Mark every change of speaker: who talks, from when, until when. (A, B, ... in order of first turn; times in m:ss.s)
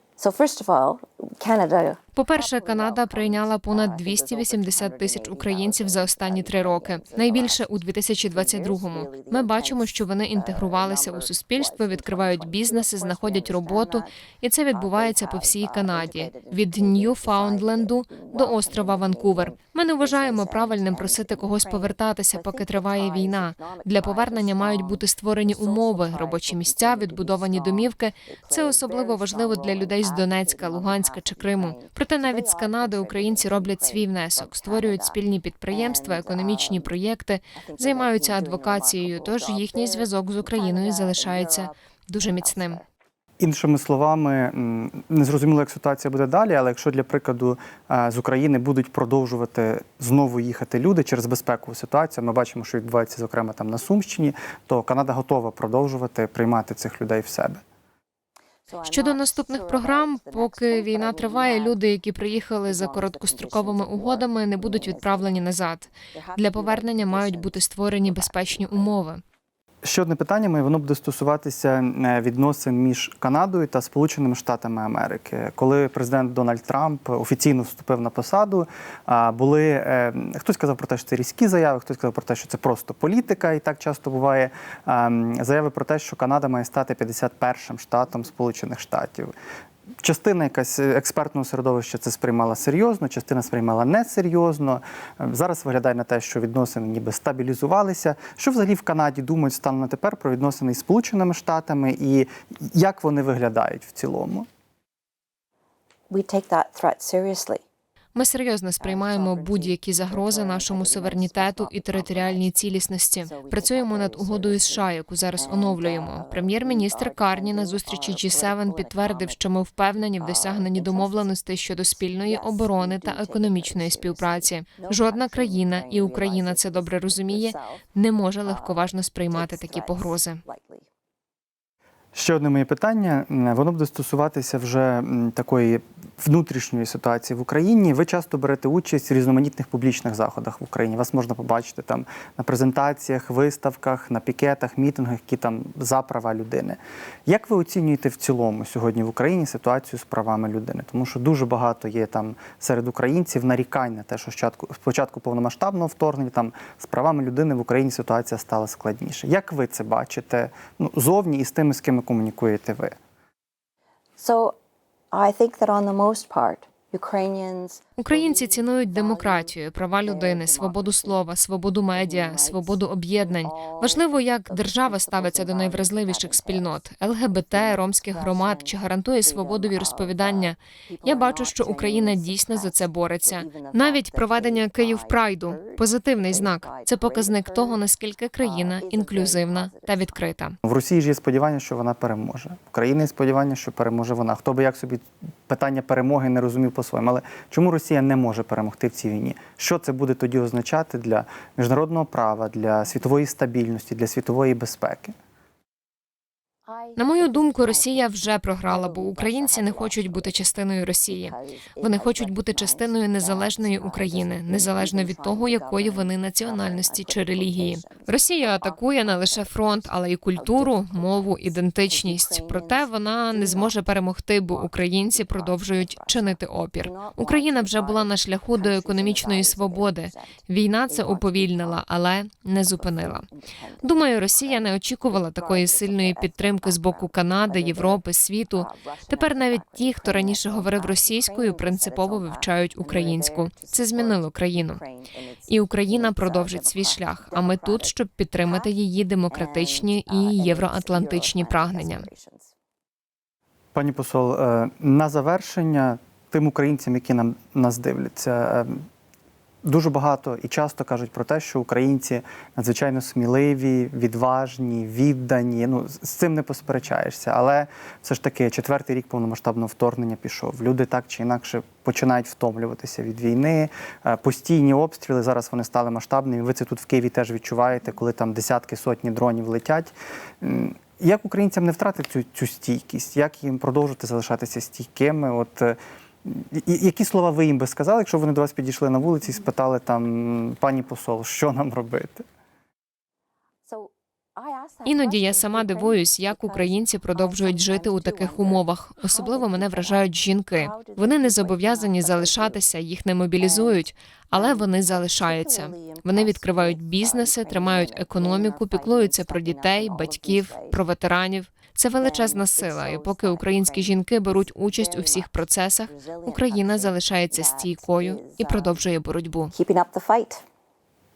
0:00.2-0:07.7 A
0:02.1-0:42.8 B
0:08.3-0:14.1 A
0:14.7-0:35.2 A
0:35.7-0:37.0 A
0:37.5-0:41.7 A
0:42.2-0:42.9 A
0:43.4-0:57.6 C
0:58.7-1:01.8 A
0:58.8-1:09.2 B
1:02.6-1:05.5 A
1:06.1-1:09.0 A
1:09.8-1:29.3 C
1:30.0-1:44.5 C
1:46.1-1:47.6 A
1:48.1-2:10.4 B
1:48.8-1:52.5 A
1:53.2-1:59.4 A
2:00.2-2:01.3 A
2:02.2-2:07.8 A
2:08.4-2:10.9 A
2:12.1-2:43.0 C
2:44.2-2:44.6 A
2:45.1-2:51.2 A
2:48.0-3:10.6 B
2:51.9-3:07.8 A
3:08.4-3:10.2 A
3:10.6-3:25.1 C
3:26.7-3:30.4 A
3:27.0-3:53.2 B
3:31.1-3:39.8 A
3:40.3-3:44.0 A
3:44.5-3:51.8 A
3:52.6-4:07.9 A
3:53.8-4:04.8 B
4:05.5-4:12.0 B
4:08.4-4:08.7 A
4:09.3-4:12.5 A
4:13.7-4:18.8 C
4:19.6-4:52.2 C
4:53.6-5:02.6 A
4:54.8-5:19.5 B
5:03.4-5:10.8 A
5:12.0-5:15.3 A
5:15.8-5:18.9 A
5:19.5-5:20.4 A